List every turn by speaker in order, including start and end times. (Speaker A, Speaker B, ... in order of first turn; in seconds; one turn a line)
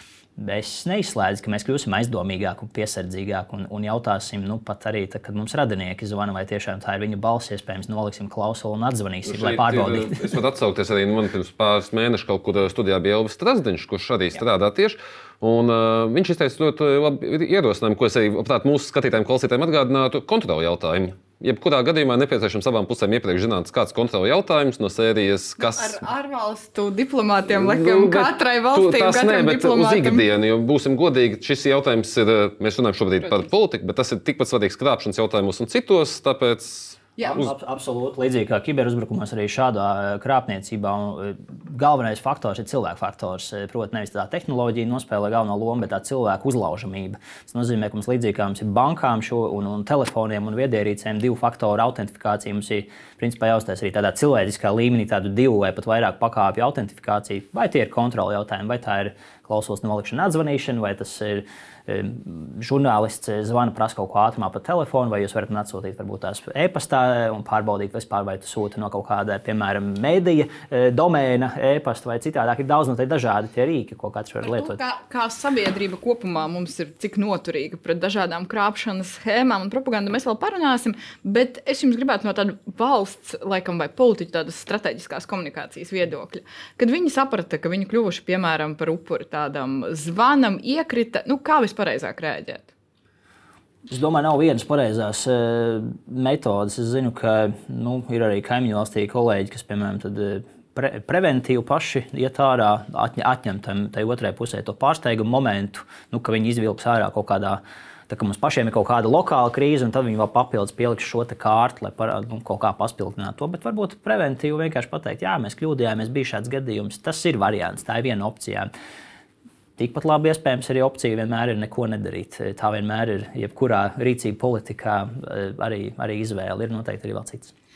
Speaker A: 0.4-10.3
Speaker B: 9.2-26.0
Speaker C: 25.6-30.2
Speaker B: 27.5-37.2
Speaker C: 37.2-37.5
Speaker A: 37.3-74.8
Speaker C: 74.4-92.7
Speaker A: 93.9-118.7
Speaker A: 119.8-127.5